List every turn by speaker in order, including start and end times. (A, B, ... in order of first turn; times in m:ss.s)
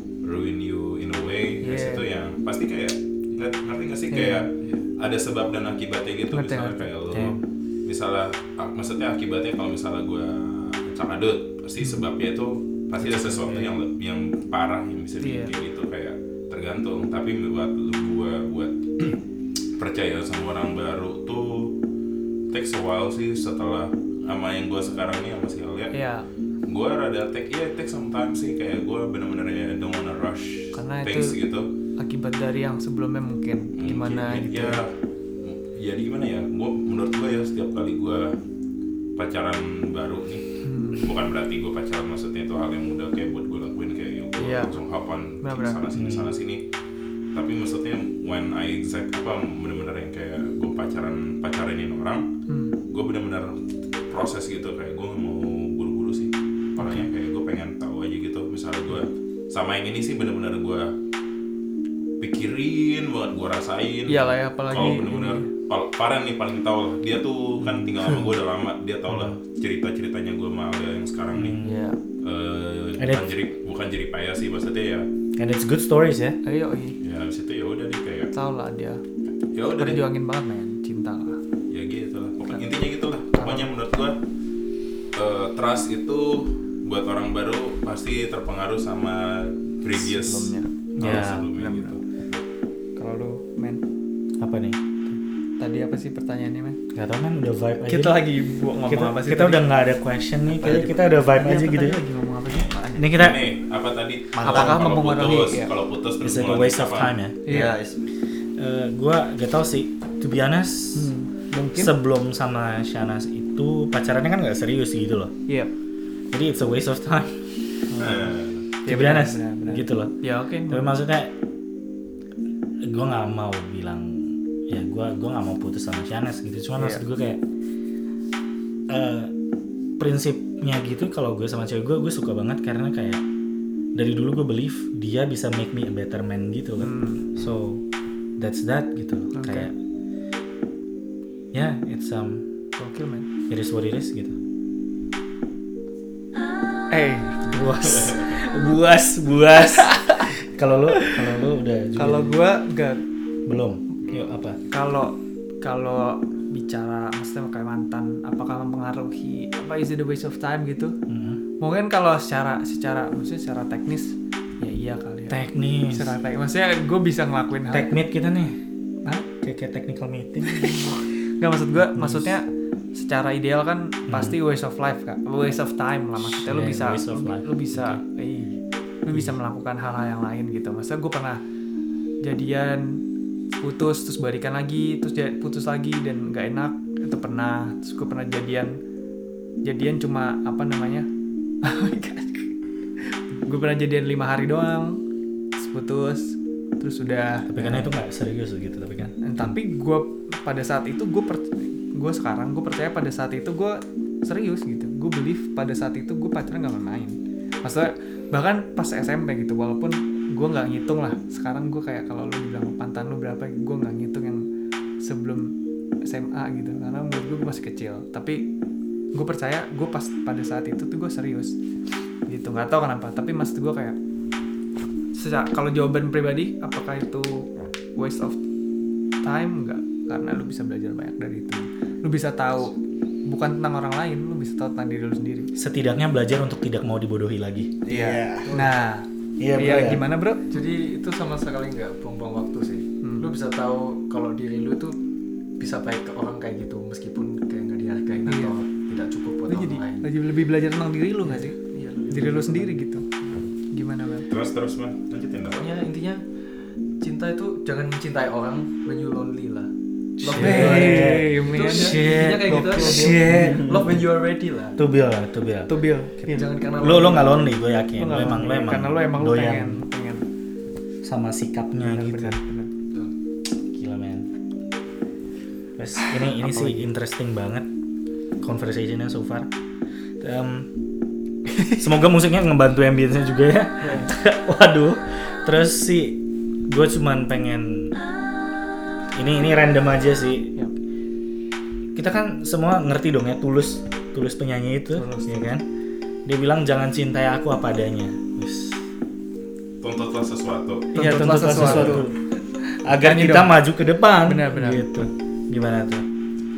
0:00.2-0:19.2 A
0:01.6-0:02.1 B
0:04.1-0:04.5 B
0:06.3-0:07.4 B
0:07.1-0:07.4 C
0:13.1-0:13.7 C
0:15.2-0:15.5 B
0:19.8-0:21.8 A
0:22.5-0:26.0 A
0:25.9-0:26.3 B
0:26.7-0:31.7 A
0:30.7-0:31.4 B
0:32.0-0:34.8 B
0:33.8-0:38.4 A
0:39.2-0:46.6 A
0:40.6-0:41.1 B
0:44.4-0:44.8 B
0:45.4-0:45.8 B
0:45.9-0:46.3 C
0:47.3-0:52.3 A
0:52.5-0:52.8 B
0:52.9-0:53.6 A
0:54.1-1:01.0 A
0:56.8-0:57.1 B
1:02.2-1:11.6 A
1:04.1-1:05.5 B
1:07.7-1:08.1 C
1:09.1-1:09.4 C
1:11.3-1:11.8 C
1:11.6-1:12.0 B
1:12.2-1:15.1 A
1:13.0-1:13.3 C
1:15.4-1:16.4 C
1:16.4-1:17.0 B
1:17.0-1:18.3 A
1:18.3-1:19.0 B
1:19.5-1:20.1 A
1:19.8-1:21.4 B
1:21.7-1:24.2 A
1:23.4-1:23.7 B
1:25.2-1:32.0 A
1:30.0-1:30.7 B
1:31.0-1:31.5 C
1:31.6-1:32.0 B
1:33.0-1:33.8 B
1:34.4-1:34.8 C
1:35.1-1:36.8 B
1:36.9-1:38.3 C
1:37.8-1:39.7 B
1:38.9-1:42.0 C
1:40.5-1:41.0 D
1:41.3-1:43.2 B
1:42.5-1:47.2 A
1:43.0-1:43.5 C
1:44.4-1:45.0 D
1:44.4-1:45.7 B
1:46.2-1:47.6 C
1:47.5-1:47.8 B
1:47.5-1:48.0 D
1:48.6-1:51.1 C
1:50.9-1:51.9 B
1:51.7-1:55.3 C
1:56.3-1:57.4 C
1:57.9-2:01.0 B
1:58.0-1:58.6 A
1:58.9-2:00.2 C
2:00.7-2:01.3 C
2:02.8-2:07.4 C
2:06.8-2:07.0 B
2:08.9-2:09.3 C
2:10.0-2:13.2 C
2:14.0-2:17.8 C
2:16.8-2:17.3 B
2:18.4-2:19.8 C
2:19.3-2:19.7 B
2:21.5-2:22.5 C
2:22.8-2:23.3 B
2:23.5-2:24.4 C
2:26.9-2:27.6 B
2:27.5-2:32.4 C
2:29.7-2:30.3 B
2:30.9-2:31.2 B
2:32.0-2:33.0 B
2:33.5-2:34.6 C
2:34.1-2:34.3 A
2:34.7-2:41.0 B
2:41.1-2:41.4 C
2:41.6-2:47.9 B
2:45.3-2:46.2 C
2:47.7-2:48.6 C
2:49.1-2:51.0 C
2:50.5-3:01.4 B
2:51.8-2:52.4 C
2:54.1-2:54.4 C
2:56.2-2:58.0 C
3:02.2-3:03.0 B
3:03.6-3:08.8 B
3:09.6-3:11.1 B
3:11.6-3:15.0 B
3:15.6-3:17.9 B
3:17.5-3:19.6 C
3:19.2-3:34.4 B
3:35.0-3:38.4 B
3:39.1-3:41.5 B
3:42.3-3:44.0 B
3:45.1-3:48.4 B
3:49.2-3:52.7 B
3:53.3-3:55.5 B
3:55.6-3:58.3 C
3:57.8-3:58.5 D
3:57.9-3:58.7 E
3:58.5-4:00.6 B
3:59.4-4:00.0 C
4:00.5-4:05.0 E
4:03.0-4:03.3 B
4:05.6-4:10.1 E
4:08.3-4:08.5 B
4:09.5-4:11.6 B
4:11.3-4:13.4 E
4:12.1-4:13.0 B
4:13.7-4:14.3 B
4:14.3-4:15.6 A
4:15.5-4:16.2 E
4:17.0-4:24.8 E
4:20.2-4:24.0 C
4:20.3-4:23.6 B
4:24.8-4:26.3 C
4:25.7-4:26.5 B
4:26.3-4:27.5 E
4:26.8-4:29.8 C
4:28.0-4:30.3 B
4:31.0-4:32.4 C
4:31.8-4:32.7 B
4:33.7-4:34.3 C
4:35.8-4:37.7 C
4:38.4-4:39.5 C
4:40.2-4:40.7 C
4:41.8-4:48.0 C
4:43.8-4:44.1 B
4:49.1-4:50.5 C
4:52.0-4:55.6 C
4:54.9-4:55.5 B
4:56.2-4:58.8 C
4:59.8-5:00.9 A
5:00.9-5:02.2 C
5:00.9-5:02.1 B
5:02.8-5:06.1 C
5:02.9-5:03.6 B
5:04.2-5:05.1 B